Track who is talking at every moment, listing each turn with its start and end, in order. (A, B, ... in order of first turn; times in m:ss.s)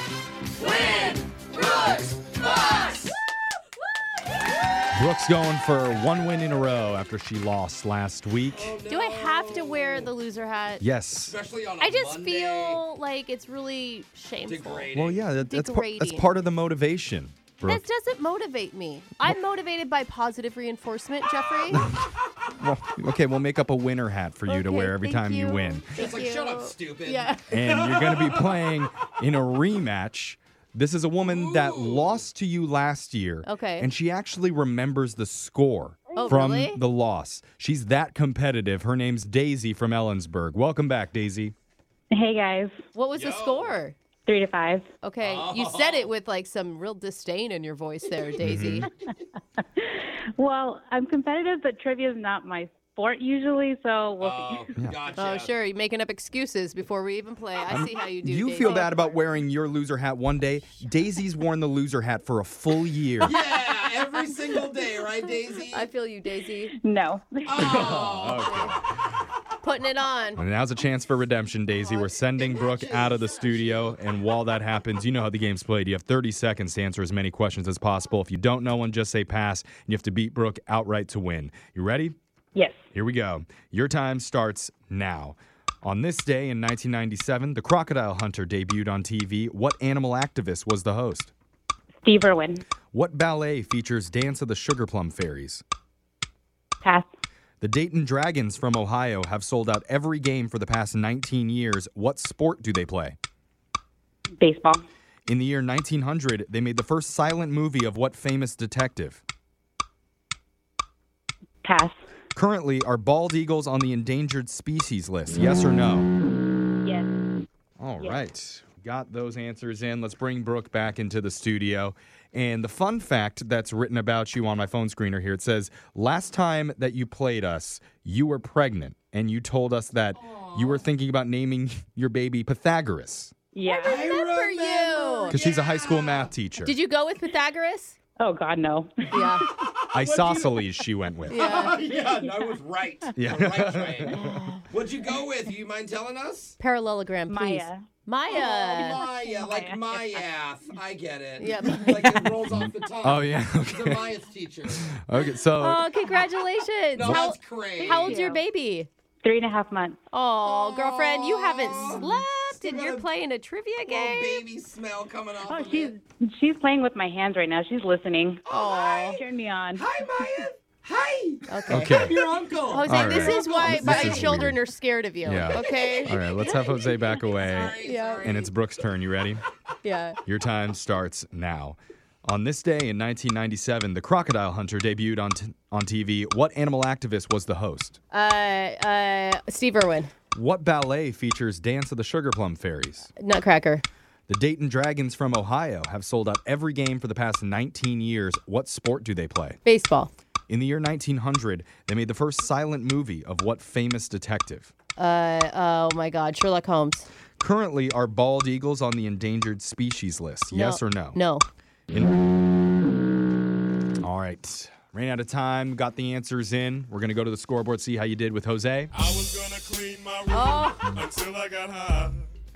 0:00.6-0:03.1 A
0:04.9-0:08.7 B
0:08.5-0:10.1 A
0:08.9-0:10.9 C
0:10.8-0:11.4 B
0:11.2-0:12.8 A
0:11.8-0:16.3 C
0:14.4-0:15.3 A
0:14.9-0:17.8 B
0:17.6-0:21.9 C
0:21.7-0:22.0 B
0:22.6-0:25.9 B
0:24.4-0:27.5 C
0:25.9-0:28.7 A
0:27.5-0:41.5 B
0:31.2-0:32.2 A
0:33.4-0:33.9 C
0:36.1-0:36.8 C
0:42.1-0:42.8 D
0:43.0-0:44.0 C
0:43.1-0:43.8 A
0:44.3-0:44.9 D
0:45.0-0:48.9 C
0:45.2-0:46.1 A
0:48.4-0:48.9 B
0:49.6-0:54.7 D
0:54.2-0:55.5 A
0:55.2-0:59.2 C
0:57.7-1:03.3 B
1:03.2-1:05.9 A
1:05.7-1:06.8 C
1:06.8-1:08.0 D
1:07.4-1:08.5 A
1:07.6-1:08.8 C
1:07.6-1:08.8 B
1:09.6-1:10.4 C
1:10.4-1:22.1 B
1:11.8-1:14.0 A
1:23.0-1:31.3 B
1:32.0-1:32.6 D
1:32.9-1:35.6 B
1:36.8-1:37.1 D
1:37.6-1:43.2 B
1:44.4-1:44.8 D
1:45.2-1:49.2 B
1:51.6-1:52.0 D
1:52.3-1:56.1 B
1:56.8-1:57.2 D
1:57.8-2:13.3 B
2:10.1-2:10.8 A
2:13.5-2:13.9 D
2:13.7-2:16.3 A
2:13.7-2:15.4 C
2:15.3-2:16.7 B
2:16.6-2:18.0 C
2:18.2-2:19.4 D
2:19.1-2:19.4 C
2:19.6-2:20.6 A
2:19.9-2:21.4 B
2:21.3-2:21.8 C
2:21.3-2:24.1 A
2:23.2-2:24.4 B
2:24.1-2:24.7 C
2:24.7-2:26.6 A
2:26.6-2:29.0 C
2:27.3-2:27.8 D
2:28.3-2:34.9 A
2:28.9-2:30.0 D
2:31.4-2:32.2 C
2:32.5-2:34.1 B
2:34.7-2:35.9 B
2:35.6-2:38.9 C
2:36.9-2:38.2 A
2:37.8-2:38.4 D
2:39.2-2:40.0 D
2:40.1-2:44.4 C
2:40.4-2:43.1 A
2:43.8-2:45.9 A
2:45.4-2:48.4 D
2:48.5-2:49.1 A
2:48.5-2:49.2 C
2:49.0-2:49.9 D
2:49.7-2:54.4 A
2:51.5-2:52.0 C
2:51.7-2:52.2 B
2:52.7-2:56.2 C
2:52.8-2:54.6 B
2:55.2-2:59.4 B
2:55.5-2:58.5 A
2:57.7-2:58.3 C
2:59.8-3:00.2 C
3:00.2-3:08.0 B
3:08.1-3:10.1 C
3:10.3-3:13.1 B
3:13.2-3:13.8 C
3:14.3-3:19.6 B
3:19.6-3:20.1 C
3:20.5-3:24.7 B
3:25.0-3:27.1 C
3:27.4-3:31.2 B
3:30.5-3:31.4 C
3:31.9-3:32.2 B
3:34.0-3:38.9 B
3:39.0-3:42.2 E
3:40.3-3:40.8 C